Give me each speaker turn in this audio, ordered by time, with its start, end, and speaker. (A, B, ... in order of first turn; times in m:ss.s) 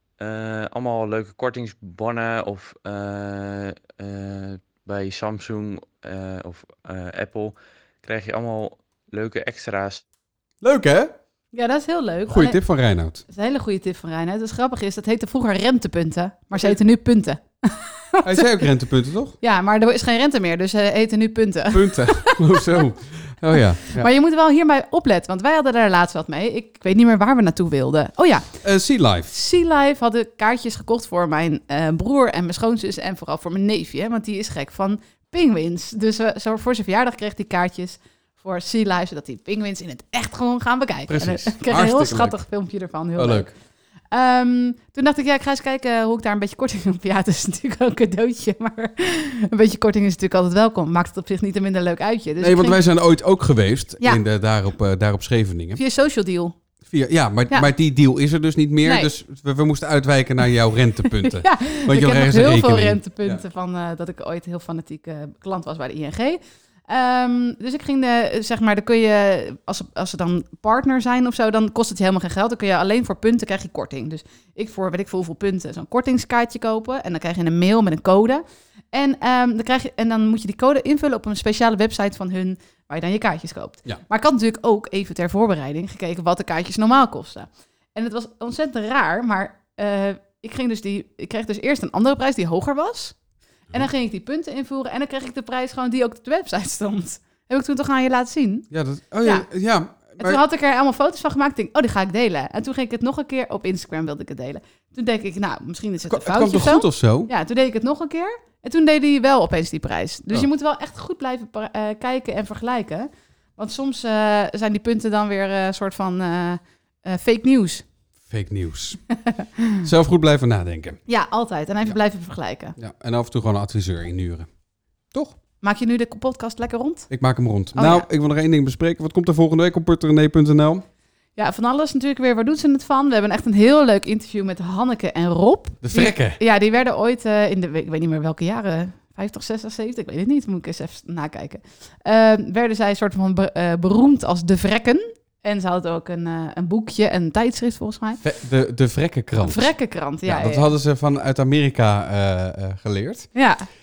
0:00.2-0:10.0 A
0:10.6-0:11.1 B
0:11.5-0:12.6 C
0:12.3-0:13.2 B
0:13.3-0:18.7 C
0:18.2-0:19.4 B
0:19.4-0:22.8 C
0:21.7-0:24.1 B
0:23.9-0:28.6 C
0:28.6-0:29.3 B
0:29.3-0:43.5 C
0:41.1-0:42.4 B
0:43.2-0:43.5 B
0:44.1-0:52.8 C
0:52.4-0:55.8 B
0:55.8-0:56.6 C
0:56.9-1:03.4 B
0:58.8-0:59.1 C
1:01.2-1:33.2 C
1:33.7-1:38.7 C
1:38.7-1:40.4 B
1:40.2-1:57.8 C
1:46.1-1:47.3 B
1:58.3-1:59.2 B
1:59.8-2:01.0 B
2:01.1-2:02.8 C
2:02.8-2:04.5 B
2:05.6-2:07.2 C
2:07.1-2:10.8 B
2:07.7-2:08.1 C
2:11.4-2:28.2 C
2:15.8-2:16.4 B
2:28.2-2:33.5 B
2:29.4-2:30.7 C
2:33.4-2:33.7 C